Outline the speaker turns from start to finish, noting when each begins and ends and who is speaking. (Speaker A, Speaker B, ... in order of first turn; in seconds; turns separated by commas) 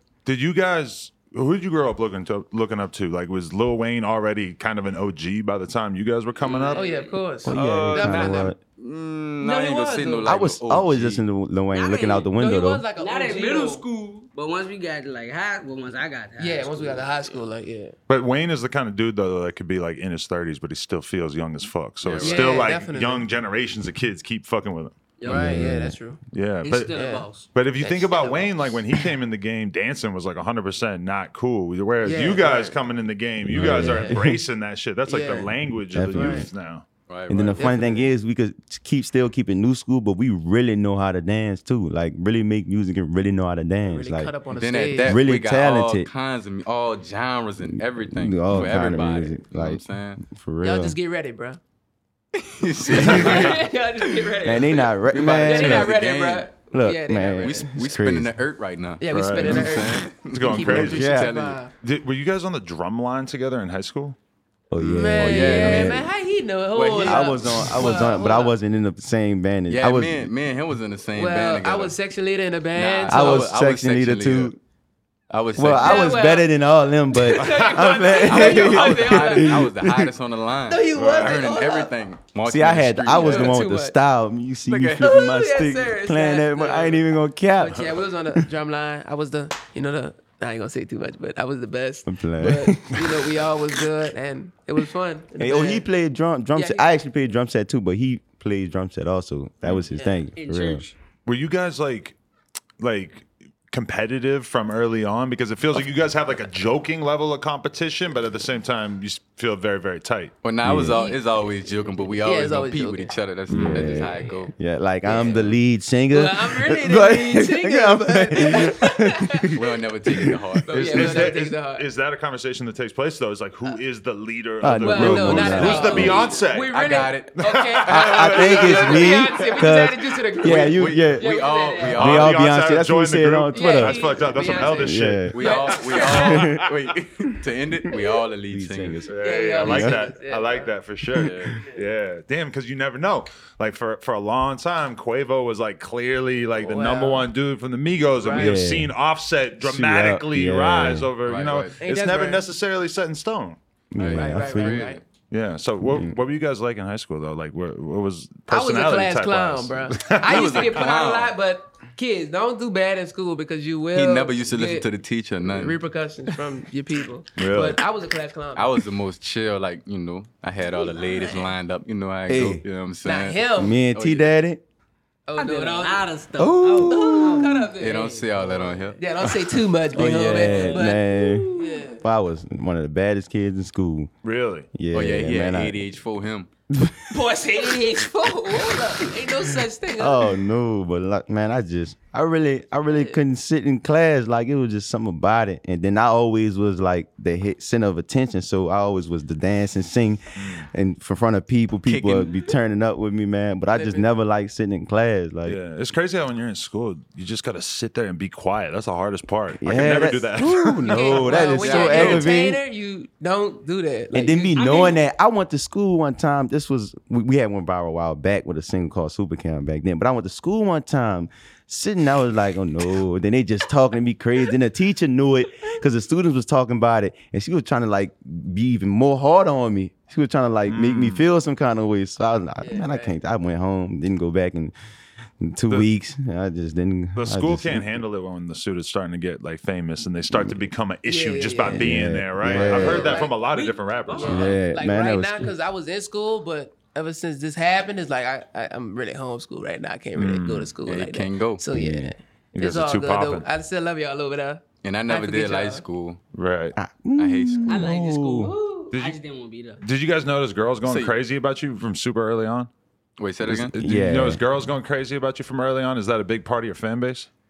Speaker A: 0.2-6.8, Speaker B: 6.4-7.2, Speaker C: 6.7-8.5, Speaker D: 7.4-8.6, Speaker A: 7.5-8.5, Speaker E: 8.8-11.2, Speaker C: 9.4-10.3, Speaker D: 10.2-12.8, Speaker B: 11.7-12.3, Speaker C: 12.3-13.8, Speaker B: 12.9-17.3, Speaker C: 16.4-17.9, Speaker A: 18.1-25.0, Speaker E: 22.0-22.7, Speaker C: 22.2-23.2, Speaker B: 25.2-25.7, Speaker C: 25.2-26.2, Speaker D: 25.3-25.9, Speaker A: 26.3-36.8, Speaker B: 26.6-28.5, Speaker C: 26.9-27.2, Speaker C: 27.8-28.8, Speaker C: 32.0-32.8, Speaker D: 33.4-34.4, Speaker C: 33.5-34.1, Speaker C: 35.1-35.5, Speaker D: 35.9-36.5, Speaker C: 36.1-36.5, Speaker E: 37.1-37.7, Speaker D: 37.3-44.3, Speaker C: 37.6-38.1, Speaker C: 43.8-45.2, Speaker E: 44.5-50.2, Speaker D: 45.0-46.1, Speaker D: 47.8-51.0, Speaker C: 50.6-51.6, Speaker E: 52.3-54.3, Speaker D: 53.0-53.4, Speaker C: 53.0-54.5, Speaker B: 53.1-54.7, Speaker D: 54.4-56.0, Speaker E: 55.1-56.5, Speaker C: 55.4-57.6, Speaker D: 56.7-58.3, Speaker E: 57.4-61.6, Speaker C: 59.0-61.7, Speaker A: 59.1-59.7, Speaker A: 60.2-61.0, Speaker D: 60.8-61.3, Speaker A: 61.8-64.2, Speaker D: 64.7-66.1, Speaker C: 64.8-68.5, Speaker E: 65.2-66.1, Speaker E: 66.7-68.1, Speaker D: 67.0-70.3, Speaker E: 69.7-71.9, Speaker C: 71.1-73.5, Speaker E: 72.7-74.5, Speaker D: 73.1-74.6, Speaker E: 75.3-76.2, Speaker D: 75.5-80.1, Speaker C: 75.8-76.5, Speaker C: 77.1-79.6, Speaker A: 77.4-78.2, Speaker E: 78.0-83.6, Speaker C: 80.7-81.9, Speaker A: 80.9-81.4, Speaker D: 82.4-88.5, Speaker C: 83.1-83.9, Speaker E: 84.7-85.1, Speaker C: 85.0-87.0, Speaker C: 87.5-95.8, Speaker D: 92.0-93.4, Speaker D: 95.4-100.8, Speaker C: 96.5-96.9, Speaker C: 99.9-100.3, Speaker B: 100.3-100.9, Speaker A: 101.2-102.2, Speaker A: 102.8-110.3, Speaker E: 110.4-114.5, Speaker D: 110.6-111.0, Speaker C: 110.9-111.2, Speaker C: 112.2-113.1, Speaker D: 113.5-120.6, Speaker C: 113.8-114.3, Speaker C: 115.0-115.6, Speaker C: 116.1-119.7, Speaker E: 119.5-121.3, Speaker C: 120.7-121.9, Speaker A: 120.7-129.0, Speaker D: 124.6-126.3, Speaker C: 124.8-132.1, Speaker E: 125.7-126.1, Speaker E: 126.7-129.6, Speaker D: 127.9-131.3, Speaker E: 130.4-132.4, Speaker D: 131.9-134.0, Speaker A: 132.0-136.6, Speaker C: 133.5-136.5, Speaker D: 134.6-135.5, Speaker E: 135.3-139.0, Speaker D: 136.1-136.7, Speaker D: 138.5-140.0, Speaker A: 139.1-153.6, Speaker C: 139.2-140.7, Speaker E: 141.1-141.6, Speaker D: 141.2-141.6, Speaker C: 146.6-147.3, Speaker C: 148.2-148.6, Speaker D: 148.3-148.9, Speaker D: 149.6-151.1, Speaker E: 151.2-151.8, Speaker C: 151.8-152.4, Speaker D: 153.9-154.9, Speaker C: 154.0-155.0, Speaker E: 154.0-155.0, Speaker A: 155.3-160.9, Speaker D: 155.8-156.2, Speaker C: 158.5-164.9, Speaker E: 160.1-161.3, Speaker E: 163.9-165.8, Speaker C: 165.4-168.8, Speaker A: 167.3-167.8, Speaker E: 168.5-174.3, Speaker C: 170.8-171.5, Speaker D: 172.3-172.6, Speaker C: 173.0-173.8, Speaker D: 173.6-174.6, Speaker C: 175.3-176.1, Speaker B: 175.4-177.6, Speaker D: 176.4-177.7, Speaker C: 176.9-181.0, Speaker E: 177.8-179.0, Speaker D: 179.9-181.5, Speaker B: 179.9-181.9, Speaker C: 181.5-182.0, Speaker D: 182.0-184.1, Speaker A: 184.2-184.7, Speaker D: 184.7-185.8, Speaker E: 184.9-186.5, Speaker D: 186.7-187.2, Speaker C: 187.1-190.3, Speaker D: 190.0-205.6, Speaker C: 192.9-193.2, Speaker A: 200.3-200.7, Speaker E: 201.8-202.3, Speaker C: 203.7-204.1, Speaker A: 205.4-211.4, Speaker D: 209.6-212.6, Speaker C: 210.8-214.7, Speaker E: 211.4-212.2, Speaker D: 214.1-234.7, Speaker B: 214.5-215.0, Speaker A: 230.7-231.3, Speaker C: 232.6-233.1, Speaker D: 235.4-238.0, Speaker A: 237.2-244.5, Speaker D: 240.3-240.7, Speaker C: 241.1-243.4, Speaker D: 241.7-243.2, Speaker B: 242.9-244.6, Speaker C: 244.1-255.8, Speaker D: 244.2-245.5, Speaker A: 250.1-250.7, Speaker E: 250.8-251.6, Speaker D: 251.7-252.1, Speaker A: 252.5-253.4, Speaker E: 254.8-256.2, Speaker A: 256.3-256.7, Speaker D: 256.7-258.5, Speaker E: 257.2-257.8, Speaker B: 257.6-259.8, Speaker C: 258.4-258.9, Speaker A: 258.9-259.2, Speaker A: 259.8-262.7, Speaker E: 260.8-261.1, Speaker E: 263.2-263.7, Speaker A: 263.4-267.3, Speaker D: 263.7-264.4